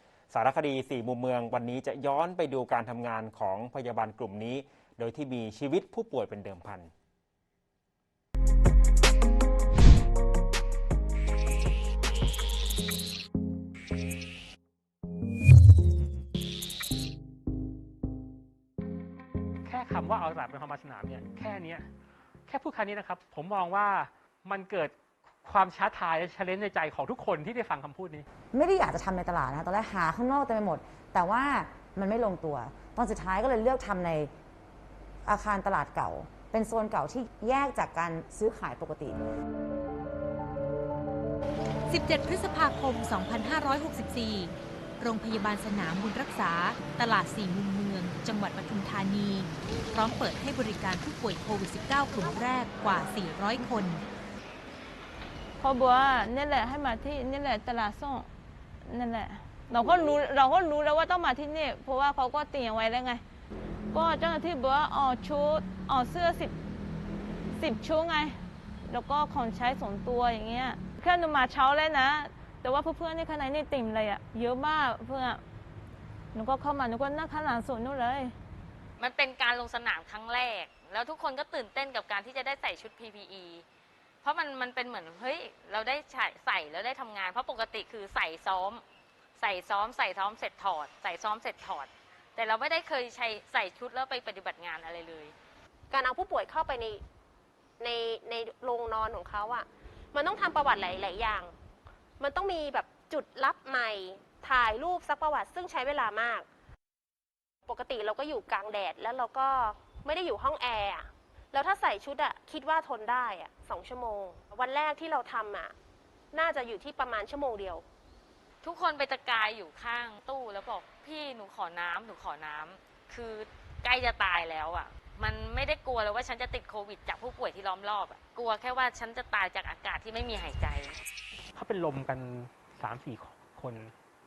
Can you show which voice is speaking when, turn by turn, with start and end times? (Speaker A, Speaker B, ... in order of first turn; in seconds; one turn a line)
Speaker A: 0.3-6.9
Speaker B: 19.6-21.9
Speaker B: 22.5-28.2
Speaker C: 28.5-34.3
Speaker C: 35.2-39.2
Speaker D: 41.9-54.0
Speaker E: 55.6-58.3
Speaker E: 58.8-63.2
Speaker E: 63.9-66.5
Speaker E: 67.5-75.4
Speaker E: 76.3-78.3
Speaker F: 79.0-83.7
Speaker F: 84.2-88.8
Speaker F: 89.4-95.3
Speaker G: 95.9-97.0
Speaker G: 97.8-101.5
Speaker G: 102.2-106.5
Speaker G: 107.7-115.7
Speaker G: 116.3-117.8
Speaker F: 118.6-131.0
Speaker B: 131.5-133.9